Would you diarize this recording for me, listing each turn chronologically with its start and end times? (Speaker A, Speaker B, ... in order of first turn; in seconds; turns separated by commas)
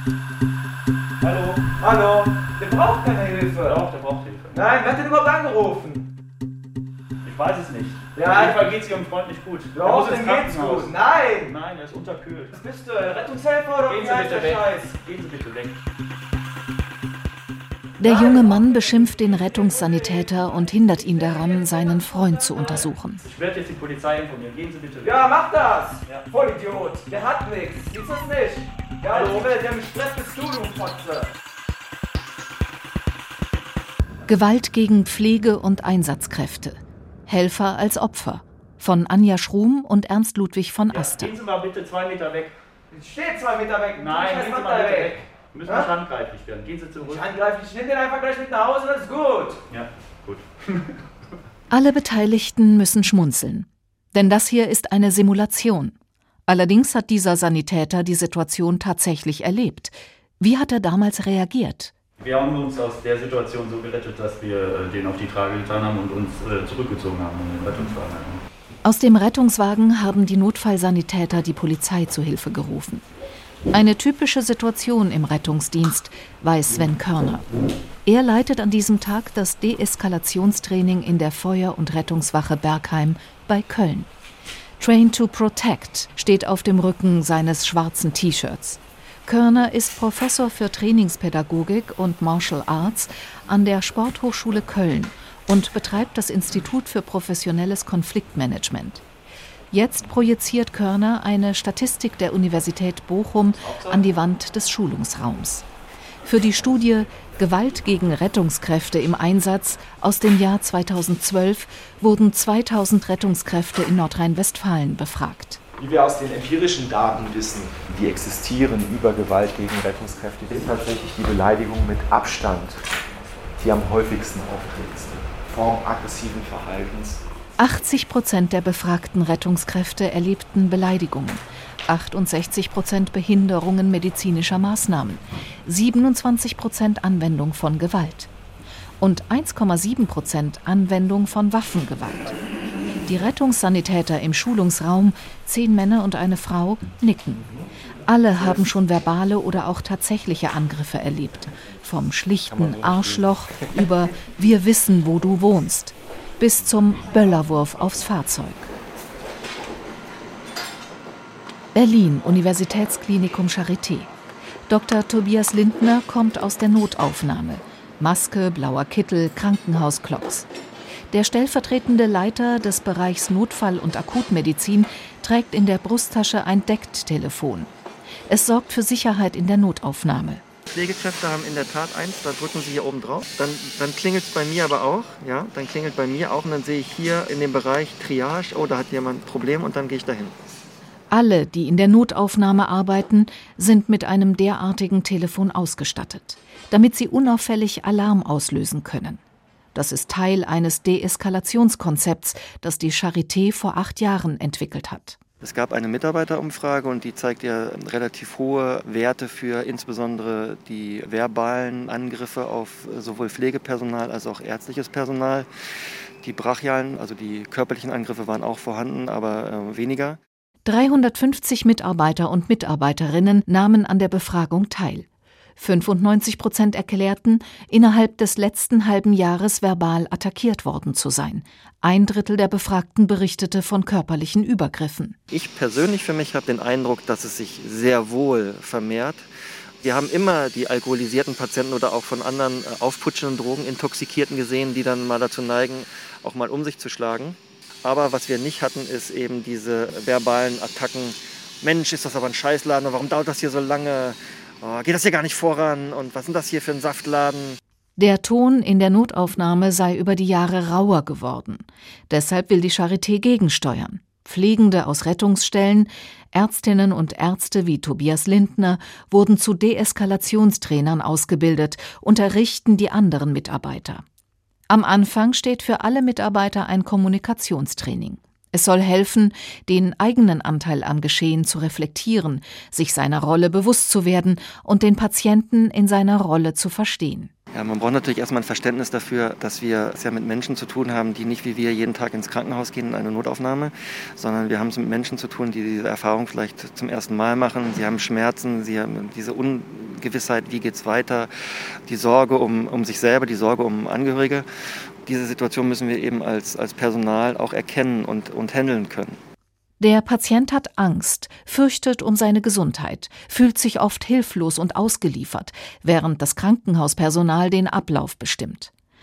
Speaker A: 1.2-1.6, Speaker B: 1.8-3.8, Speaker A: 3.6-4.6, Speaker B: 4.5-6.0, Speaker A: 7.2-12.5, Speaker B: 8.2-8.7, Speaker B: 9.7-11.5, Speaker B: 12.5-14.8, Speaker A: 13.8-15.8, Speaker C: 18.0-23.2, Speaker B: 18.0-18.6, Speaker B: 21.0-22.8, Speaker A: 23.2-25.3, Speaker B: 25.0-31.3, Speaker A: 29.1-29.5, Speaker C: 34.3-41.3, Speaker A: 40.9-42.5, Speaker B: 42.9-45.9, Speaker A: 43.9-47.3, Speaker B: 47.0-49.6, Speaker A: 49.7-50.5, Speaker C: 51.7-55.9, Speaker C: 56.5-61.9, Speaker A: 62.2-68.4, Speaker C: 68.8-73.0, Speaker C: 73.7-77.5, Speaker C: 78.0-84.1, Speaker C: 84.8-99.0, Speaker C: 99.7-105.6, Speaker C: 106.2-115.6, Speaker D: 115.8-122.8, Speaker D: 123.5-127.2, Speaker C: 127.6-138.3, Speaker C: 139.0-142.3, Speaker C: 143.1-147.4, Speaker D: 147.4-147.7, Speaker C: 148.1-158.7, Speaker D: 152.5-153.4, Speaker C: 161.7-164.1, Speaker C: 164.7-170.5, Speaker C: 171.1-177.7, Speaker C: 178.3-180.4, Speaker E: 180.7-190.3, Speaker C: 191.1-199.2, Speaker C: 199.7-205.2, Speaker E: 205.4-215.5, Speaker E: 216.2-220.2, Speaker C: 220.6-225.1, Speaker C: 225.6-235.2, Speaker E: 235.3-239.3, Speaker E: 239.8-257.6, Speaker C: 258.0-274.0, Speaker C: 274.7-287.3, Speaker E: 287.5-301.3, Speaker E: 301.9-304.4, Speaker E: 305.0-309.2, Speaker C: 309.8-318.7